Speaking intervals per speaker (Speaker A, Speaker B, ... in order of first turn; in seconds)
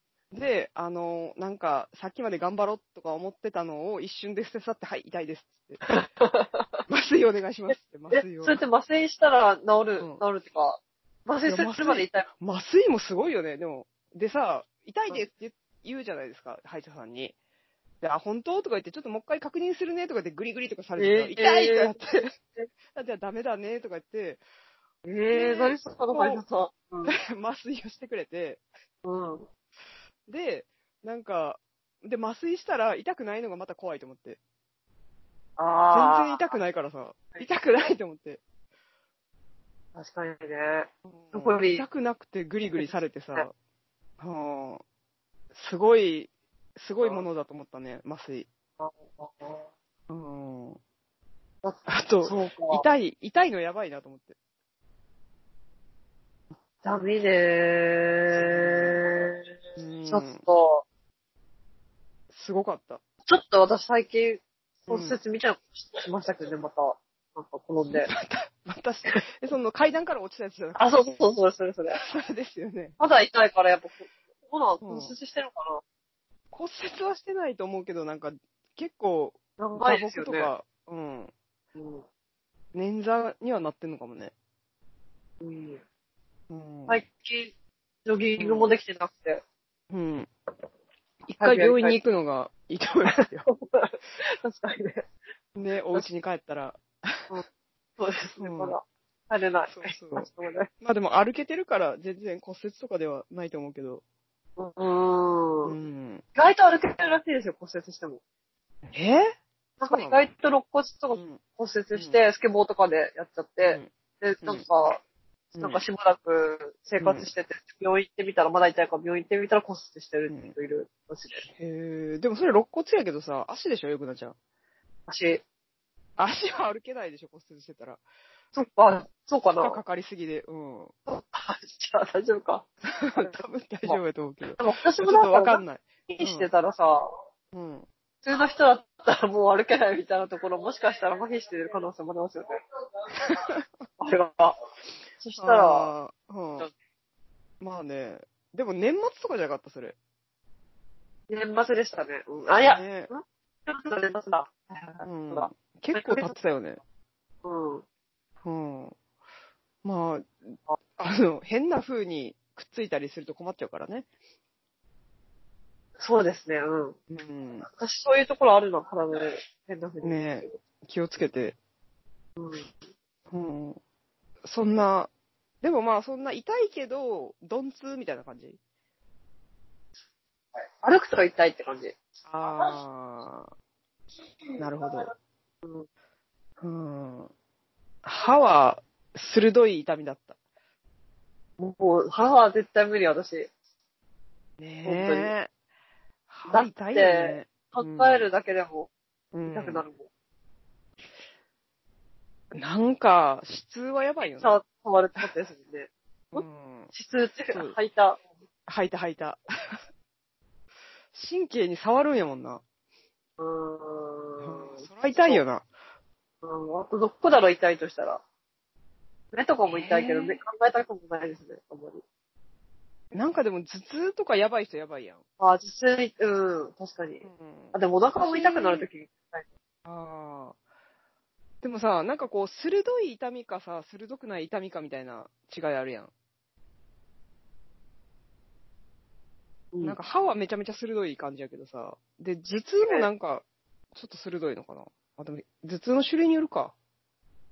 Speaker A: 0.3-5.8, 6.9-8.6, 11.4-17.3, 18.0-22.3, 22.9-24.4, 25.3-26.4, 27.1-28.6, 30.3-34.4, 35.9-38.4, 41.1-43.5, 44.2-44.8, 45.5-48.5, 50.1-50.8, 51.9-54.3, 58.4-58.8, 59.8-60.4, 62.3-63.0, 64.9-65.2, 67.9-70.9, 71.9-73.0, 74.8-75.1, 76.5-81.3, 82.7-84.3, 86.5-87.0, 88.4-88.7, 89.9-90.3, 91.3-93.5, 95.5-97.3, 98.4-98.8, 99.7-100.3, 100.8-104.0, 105.6-106.2, 108.9-110.2, 111.1-111.4, 111.9-112.2, 113.6-113.9, 115.5-115.8, 117.0-117.3, 120.3-120.5, 121.5-124.4, 126.2-128.0, 129.6-130.9, 132.9-136.5, 137.5-137.9, 143.2-143.6, 145.4-146.7, 147.6-150.0, 152.6-153.1, 155.0-156.8, 158.4-158.9, 159.8-164.1, 167.1-167.7, 170.0-171.6, 173.3-173.8, 174.4-175.1, 175.6-178.6, 182.3-183.5, 184.6-185.1, 186.6-187.3, 188.0-190.3, 194.6-195.5, 196.3-198.3, 199.3-199.8, 202.5-204.6, 206.3-206.9, 208.7-209.8, 211.1-212.6, 214.4-215.6, 219.7-220.4, 223.1-225.2, 227.2-228.9, 229.8-230.6, 231.6-236.1, 239.8-246.7
Speaker B: 5.9-6.8, 8.1-12.3, 21.0-22.0, 25.1-27.1, 29.0-29.5, 35.6-36.5, 39.9-41.8, 42.8-43.5, 48.8-49.7, 51.6-52.9, 56.8-59.5, 60.1-60.8, 63.3-68.1, 70.8-72.0, 73.0-75.8, 79.6-80.5, 81.8-82.0, 85.4-85.8, 86.9-87.5, 88.0-89.4, 91.4-92.0, 93.4-95.0, 98.0-100.7, 104.6-105.7, 106.4-108.2, 109.8-115.0, 115.6-121.4, 125.1-125.4, 128.5-129.8, 131.1-134.0, 134.6-137.1, 138.2-142.6, 144.0-144.6, 145.2-145.9, 151.3-156.3, 157.4-157.8, 166.0-167.0, 167.7-170.5, 172.4-172.7, 180.8-181.9, 191.6-193.5, 194.8-195.3, 196.5-198.9, 199.5-200.1, 204.3-208.2, 213.4-215.4, 216.4-218.2, 219.3-222.0, 225.4-229.4, 239.7-240.0, 242.7-243.1